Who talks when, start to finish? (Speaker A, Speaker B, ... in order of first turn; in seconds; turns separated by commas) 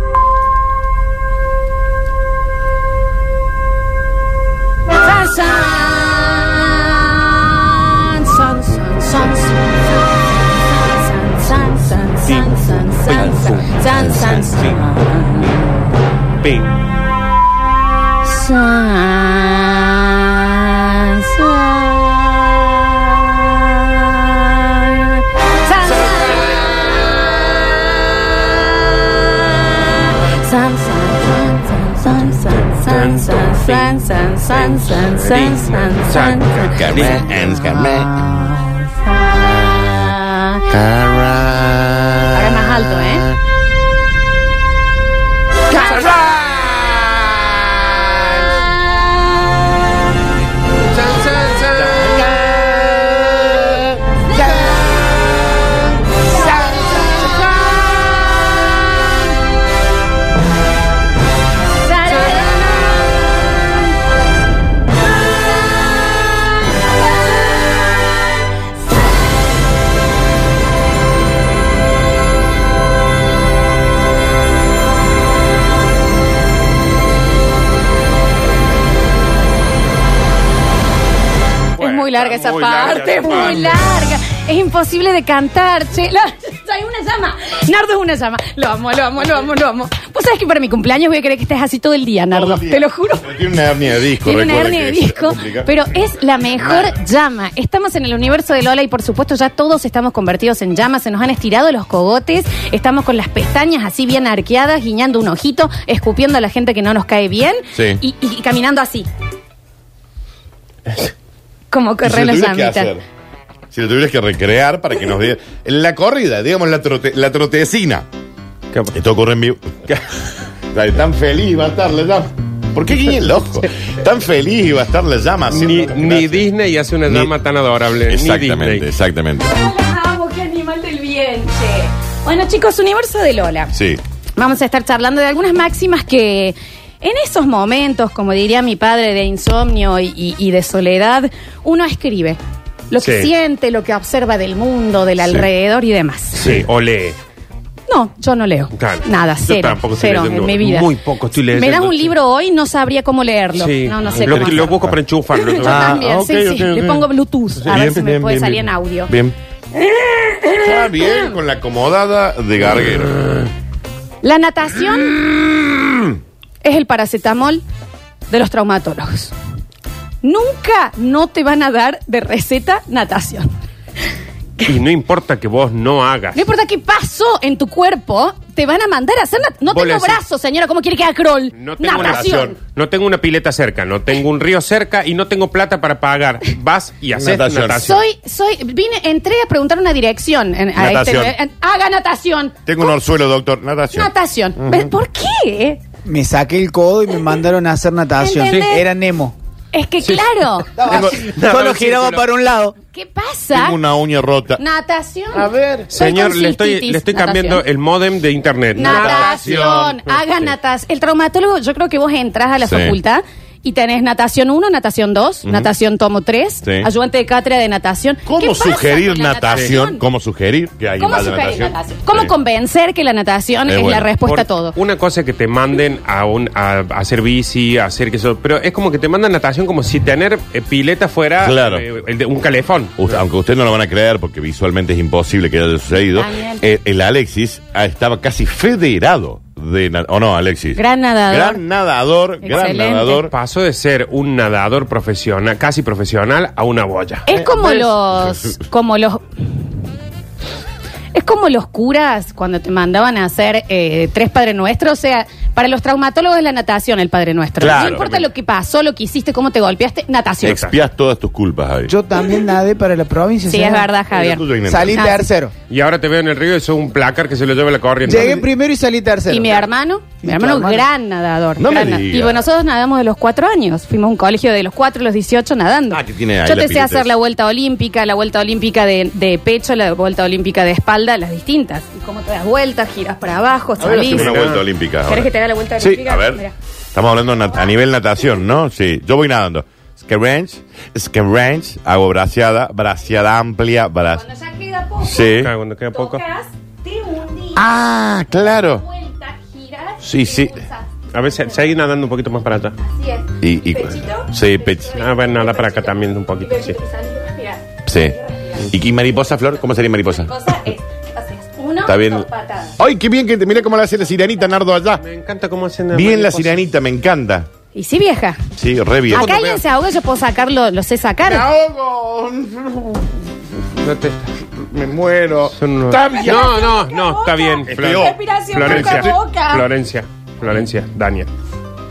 Speaker A: 5.0-9.7, Speaker A: 10.6-15.8, Speaker B: 12.3-13.8, Speaker C: 13.9-14.6, Speaker B: 14.4-14.8, Speaker B: 16.4-16.8, Speaker A: 18.2-27.8, Speaker B: 25.9-26.7, Speaker A: 29.5-40.6, Speaker B: 32.5-34.0, Speaker B: 34.5-37.2, Speaker C: 36.7-38.3, Speaker C: 40.7-42.5, Speaker A: 42.3-43.2, Speaker A: 45.7-46.1, Speaker B: 45.9-47.0, Speaker B: 50.8-52.1, Speaker C: 51.8-52.6, Speaker A: 54.3-54.8, Speaker A: 56.1-57.4, Speaker A: 61.8-63.1, Speaker B: 81.8-83.8, Speaker A: 81.8-93.3, Speaker C: 92.3-95.7, Speaker A: 94.2-109.1, Speaker C: 96.6-96.9, Speaker C: 107.7-108.0, Speaker A: 111.7-112.9, Speaker C: 112.0-113.0, Speaker C: 113.7-118.1, Speaker C: 118.9-119.7, Speaker C: 120.7-126.5, Speaker B: 125.5-128.9, Speaker C: 128.1-129.5, Speaker A: 129.4-133.7, Speaker C: 133.7-134.0, Speaker A: 134.4-142.4, Speaker A: 142.9-146.4, Speaker B: 143.0-143.3, Speaker B: 146.3-147.2, Speaker C: 146.4-146.6, Speaker A: 147.9-150.9, Speaker B: 148.7-152.1, Speaker A: 151.5-154.7, Speaker B: 153.6-155.9, Speaker C: 154.2-159.3, Speaker A: 155.5-159.1, Speaker A: 159.7-161.3, Speaker C: 160.5-163.3, Speaker A: 164.2-165.2, Speaker C: 165.3-166.2, Speaker A: 166.6-167.6, Speaker A: 168.3-169.3, Speaker A: 170.2-173.5, Speaker B: 174.6-176.4, Speaker A: 176.3-182.6, Speaker B: 179.7-180.2, Speaker B: 181.6-188.0, Speaker C: 181.9-182.5, Speaker C: 187.2-187.9, Speaker A: 187.8-192.9, Speaker C: 190.8-191.3, Speaker C: 192.7-194.9, Speaker A: 193.9-195.8, Speaker D: 196.1-199.3, Speaker A: 198.2-198.9, Speaker A: 199.7-201.2, Speaker D: 200.8-202.7, Speaker B: 200.9-202.3, Speaker A: 202.9-203.8, Speaker C: 203.5-204.6, Speaker A: 204.6-207.6, Speaker C: 205.3-205.9, Speaker B: 205.9-209.5, Speaker C: 208.8-210.5, Speaker A: 208.8-220.0, Speaker C: 212.6-213.0, Speaker C: 215.4-215.7, Speaker C: 216.6-216.9, Speaker C: 218.2-222.3, Speaker A: 221.0-224.7, Speaker C: 223.7-224.1, Speaker B: 224.2-233.0, Speaker C: 231.4-231.8, Speaker C: 233.0-243.3, Speaker A: 236.1-236.6, Speaker A: 240.8-241.6, Speaker A: 242.4-243.2, Speaker B: 243.3-247.3, Speaker A: 247.2-249.2, Speaker C: 247.3-248.6, Speaker A: 251.1-260.6, Speaker C: 257.6-258.1, Speaker B: 257.6-258.2, Speaker C: 260.4-261.9, Speaker B: 260.5-260.7, Speaker D: 261.9-263.9, Speaker A: 263.5-265.2, Speaker C: 264.1-265.1, Speaker D: 264.7-265.5, Speaker B: 265.7-268.5, Speaker D: 268.0-269.6, Speaker A: 269.3-284.4, Speaker D: 270.2-270.9, Speaker C: 271.6-272.4, Speaker C: 275.9-277.1, Speaker C: 283.8-286.4, Speaker B: 284.1-284.6, Speaker A: 285.1-286.5, Speaker C: 286.9-294.2, Speaker A: 294.1-295.4, Speaker C: 295.0-295.5, Speaker B: 295.4-296.2, Speaker A: 295.9-297.6, Speaker C: 297.5-298.8, Speaker A: 298.5-300.9, Speaker C: 300.0-300.6, Speaker B: 301.1-302.8, Speaker A: 302.8-308.6, Speaker C: 303.4-305.0, Speaker B: 304.9-306.7, Speaker C: 307.9-310.3, Speaker A: 310.2-312.8, Speaker C: 311.9-312.2, Speaker C: 312.8-315.0, Speaker B: 315.0-316.6, Speaker C: 315.9-317.5, Speaker A: 317.7-318.4, Speaker C: 318.6-319.5, Speaker A: 319.1-321.5, Speaker B: 319.1-319.6, Speaker C: 321.2-323.1, Speaker B: 323.8-324.3, Speaker C: 324.7-326.5, Speaker B: 325.5-331.3, Speaker A: 326.0-329.6, Speaker C: 327.7-329.1